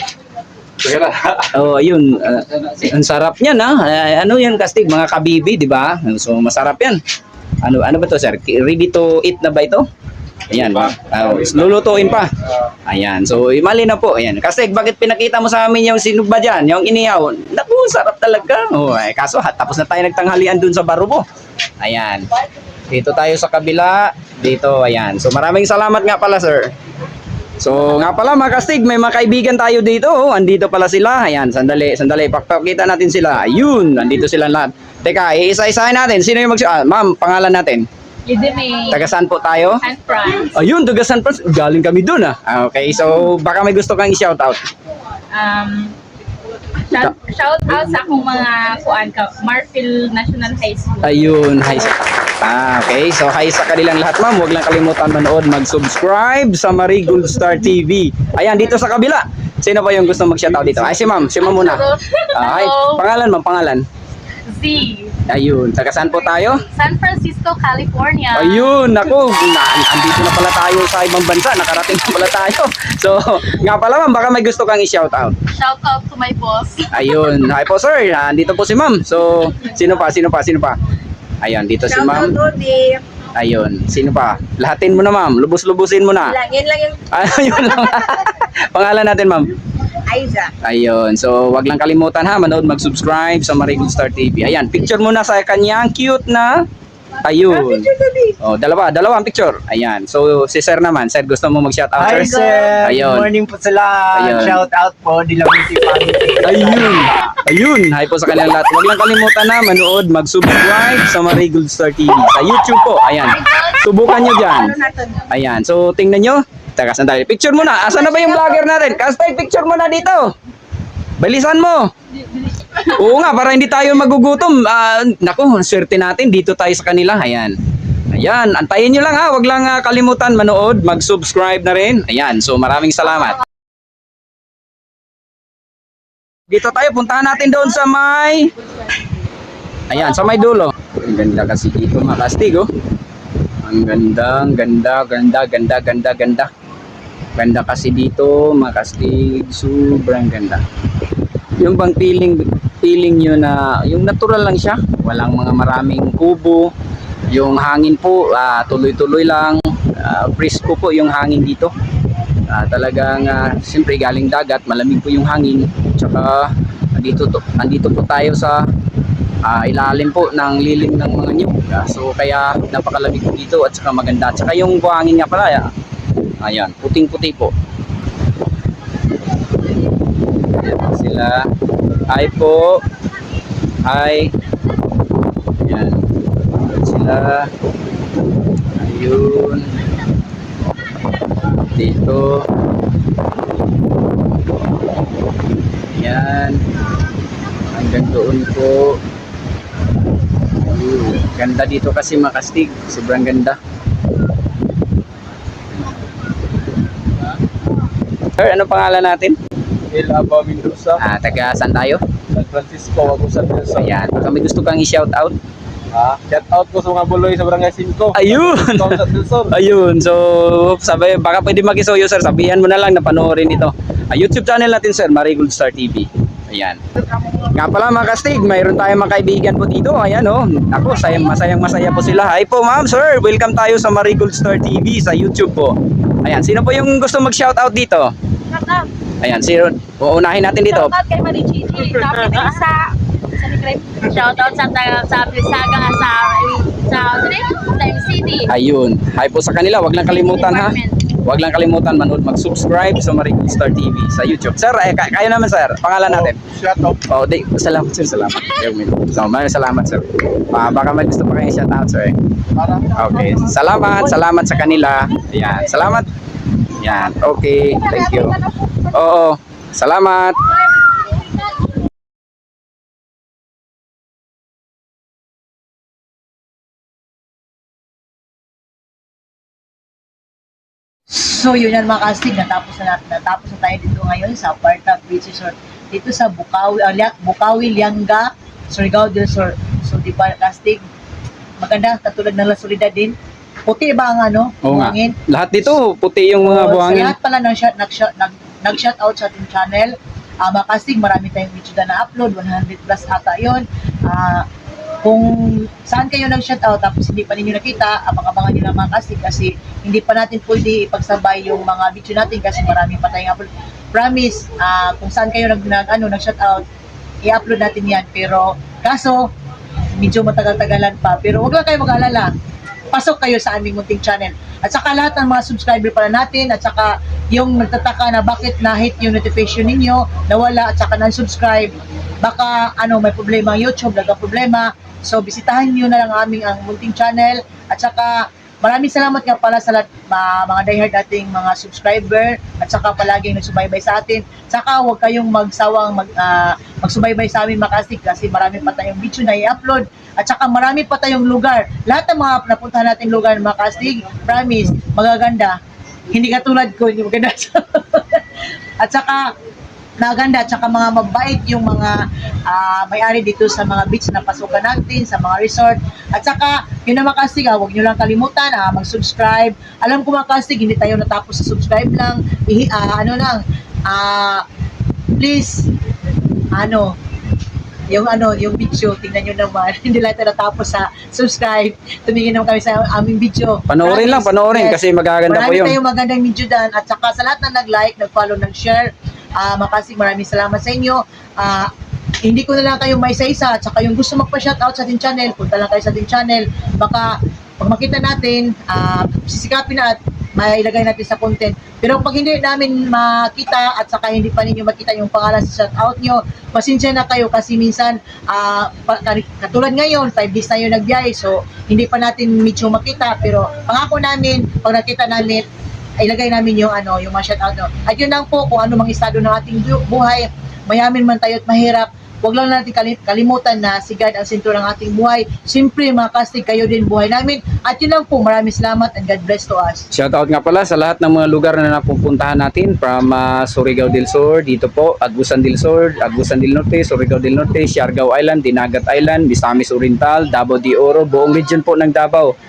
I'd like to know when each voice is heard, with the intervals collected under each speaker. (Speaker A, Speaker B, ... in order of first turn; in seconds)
Speaker A: 0.8-7.0, 7.6-9.9, 10.5-12.3, 12.9-21.2, 21.8-22.3, 22.9-26.7, 27.6-37.9, 38.9-39.8, 40.5-44.6, 51.0-63.9, 65.3-66.7, 68.3-75.4, 76.9-80.8, 81.4-82.4, 83.3-86.4, 87.1-89.5, 90.6-96.6, 97.2-97.9, 98.4-103.3, 104.1-104.7, 106.4-114.7, 115.3-120.3, 121.2-121.9, 122.8-127.5, 128.1-133.4, 136.5-138.5, 139.9-142.7, 143.6-146.5, 147.4-150.6, 151.6-156.7, 157.3-161.7, 162.5-168.7, 169.4-175.7, 176.4-177.5, 180.6-181.5, 182.1-182.8, 183.8-184.3, 185.7-187.5, 188.8-189.8, 191.7-192.5, 195.9-196.6, 197.7-199.0, 200.6-203.6, 208.4-209.4, 211.0-212.0, 213.8-215.4, 218.1-226.8, 227.4-238.1, 239.2-240.9, 248.5-256.4, 257.1-262.1, 262.8-266.1, 266.8-270.6, 294.6-297.1, 383.7-385.8, 429.9-442.3
Speaker B: 38.3-39.0, 39.8-40.5, 45.3-46.0, 46.9-51.2, 61.4-63.0, 64.5-65.2, 66.7-68.8, 75.5-77.0, 238.6-238.8, 240.7-246.4, 246.9-248.5
Speaker C: 81.9-83.0, 86.3-87.1, 90.1-90.5, 113.3-115.3, 118.1-118.5, 244.1-247.2, 250.2-251.0
Speaker D: 102.0-107.1, 209.9-211.0, 212.3-214.0, 215.9-219.5
Speaker E: 102.4-102.8, 281.1-290.8, 291.6-293.1, 293.7-295.1, 296.4-299.9, 300.5-304.4, 305.0-316.6, 317.2-319.2, 320.0-322.3, 322.9-355.6, 356.1-358.2, 358.8-359.3, 360.0-374.4, 375.2-375.7, 376.6-376.9, 377.9-391.7, 392.3-415.4, 416.0-429.9